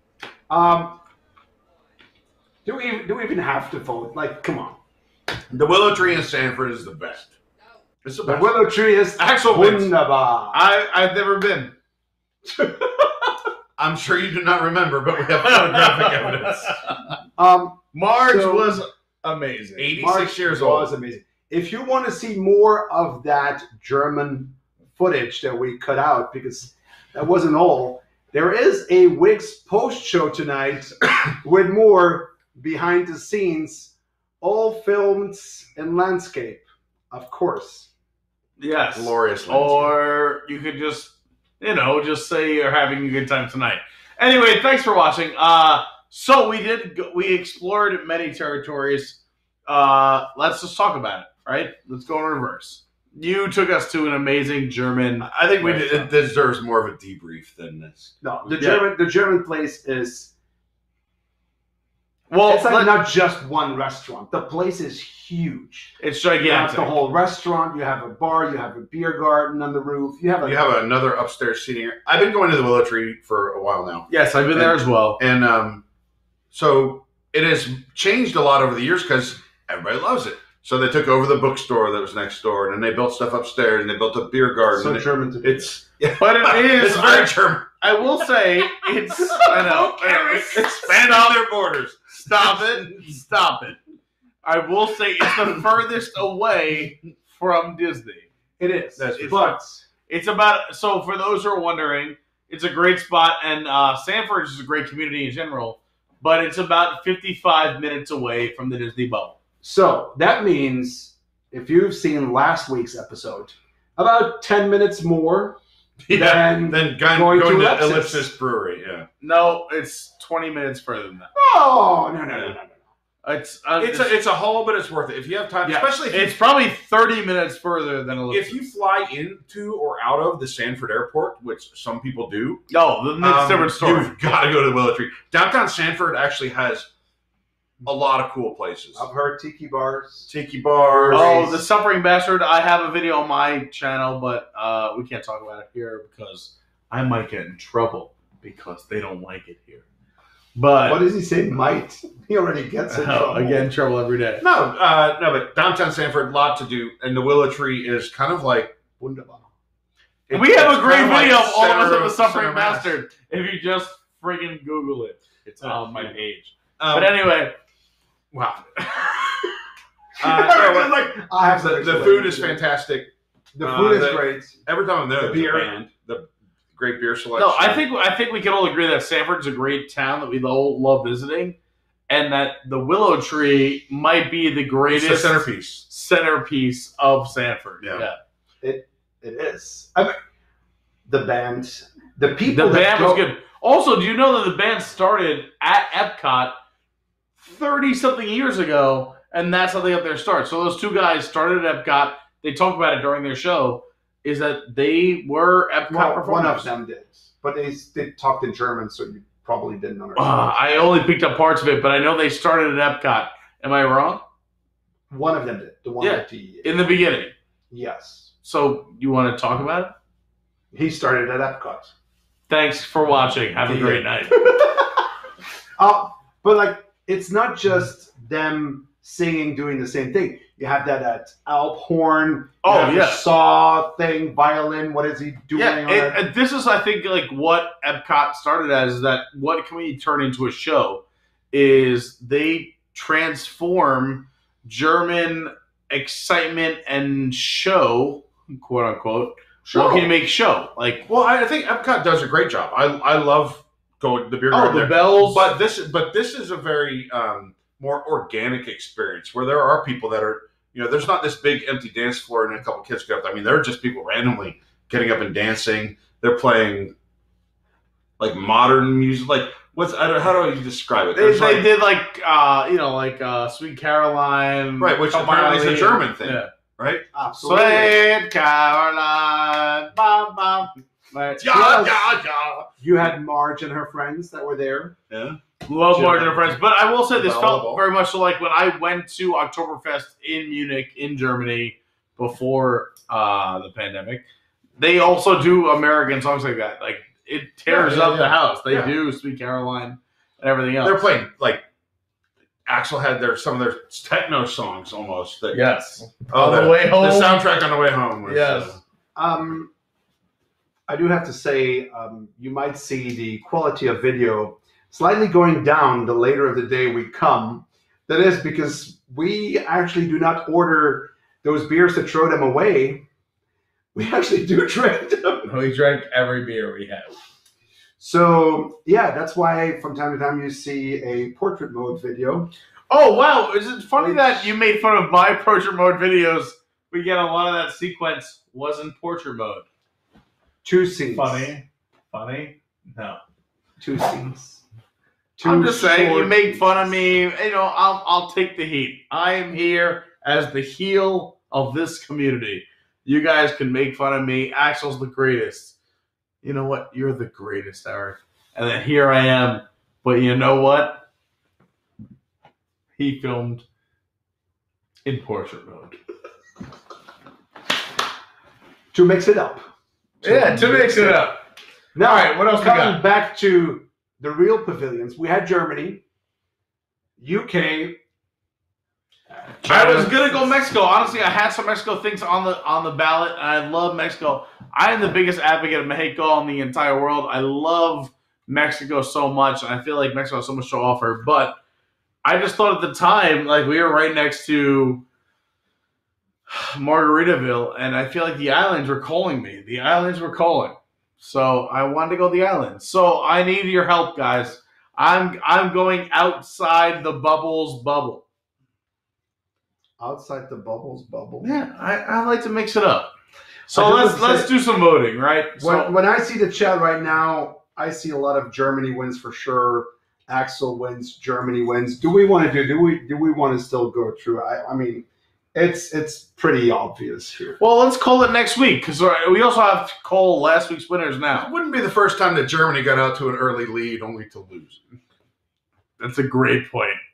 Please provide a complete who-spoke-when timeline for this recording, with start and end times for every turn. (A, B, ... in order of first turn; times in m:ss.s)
0:00.5-0:01.0 A
0:02.6-0:04.8 A
0:05.5-0:07.3 B
0:08.0-0:09.9 B
0:08.2-0:10.6 A
0:10.5-0:11.7 C
0:12.4-0:13.1 A
0:13.8-0:16.9 B
0:15.4-0:16.9 C
0:17.4-0:18.7 A
0:17.9-0:20.0 C
0:19.8-0:20.9 B
0:19.9-0:37.9 A
0:38.6-0:56.1 C
0:38.9-0:39.9 B
0:55.2-0:58.5 B
0:58.2-1:00.3 A
0:58.6-0:58.9 C
1:02.3-1:02.9 C
1:02.4-1:10.7 A
1:06.0-1:07.0 C
1:10.4-1:15.8 B
1:14.1-1:15.2 C
1:16.5-1:27.7 B
1:24.7-1:25.8 A
1:26.2-1:31.4 C
1:29.1-1:33.1 B
1:29.3-1:30.6 A
1:32.1-1:33.8 C
1:34.4-1:38.3 C
1:38.6-1:39.8 A
1:39.0-1:39.6 B
1:40.1-1:49.4 C
1:49.6-1:55.6 A
1:56.0-1:59.1 B
1:56.1-1:58.3 A
1:59.2-2:01.3 C
2:01.3-2:02.8 A
2:03.2-2:04.2 C
2:03.8-2:06.4 B
2:05.6-2:08.7 C
2:08.3-2:12.7 B
2:12.7-2:14.1 C
2:13.2-2:16.9 B
2:17.8-2:19.1 B
2:18.9-2:21.6 A
2:20.3-2:21.4 B
2:21.1-2:29.8 C
2:30.5-2:31.0 C
2:30.8-2:33.7 A
2:32.9-2:34.4 C
2:34.4-2:38.8 B
2:39.0-2:39.5 A
2:40.3-2:43.0 B
2:40.3-2:47.6 C
2:40.6-2:41.4 A
2:45.6-2:46.1 B
2:46.8-2:47.2 B
2:48.3-2:49.3 B
2:50.2-2:52.6 A
2:50.2-2:50.8 C
2:50.2-2:50.9 B
2:51.4-2:57.8 B
2:53.5-2:54.6 A
2:55.2-2:55.8 A
2:57.4-3:01.6 C
3:02.1-3:08.2 C
3:04.9-3:05.8 B
3:07.8-3:08.1 B
3:08.6-3:10.2 A
3:11.1-3:13.2 A
3:12.5-3:16.6 C
3:17.4-3:26.7 C
3:25.9-3:30.8 A
3:30.2-3:34.2 C
3:35.1-3:36.9 A
3:36.0-3:37.3 C
3:37.7-3:38.3 A
3:38.4-3:39.9 C
3:40.7-3:41.9 A
3:42.5-3:44.4 C
3:43.6-3:44.7 A
3:45.8-3:56.2 A
3:52.6-3:53.3 C
3:55.5-4:11.0 C
4:09.6-4:10.1 B
4:11.1-4:26.9 B
4:14.5-4:15.5 C
4:28.2-4:31.7 B
4:31.1-4:36.5 C
4:34.8-4:37.0 B
4:37.1-4:38.0 A
4:37.4-4:41.5 C
4:41.4-4:42.7 B
4:41.4-4:42.1 A
4:42.8-4:45.0 A
4:45.1-4:45.4 B
4:45.6-4:54.2 C
4:45.9-4:47.8 B
4:54.8-5:01.0 C
4:57.7-4:58.9 B
5:00.8-5:01.6 B
5:02.6-5:08.8 B
5:05.5-5:07.5 C
5:08.2-5:08.8 C
5:09.1-5:09.7 A
5:10.9-5:23.0 A
5:23.9-5:25.5 A
5:25.4-5:27.2 C
5:28.0-5:32.5 A
5:32.9-5:39.6 C
5:34.0-5:34.5 A
5:40.6-5:41.5 A
5:41.1-5:43.2 C
5:43.8-5:44.6 A
5:45.4-5:47.0 A
5:45.4-5:55.7 C
5:56.4-6:01.0 C
6:03.0-6:03.6 C
6:05.0-6:06.0 C
6:08.9-6:09.6 A
6:10.2-6:11.3 A
6:10.2-6:11.4 C
6:11.9-6:16.0 A
6:12.0-6:13.0 C
6:17.2-6:18.0 A
6:19.3-6:20.6 A
6:19.6-6:31.6 C
6:32.2-6:35.0 C
6:36.5-6:48.2 C
6:50.0-6:51.5 A
6:51.4-6:53.1 C
6:53.7-6:55.9 C
6:53.7-6:54.5 A
6:55.6-7:07.6 A
7:07.6-7:11.5 C
7:11.3-7:14.8 B
7:16.0-7:17.0 C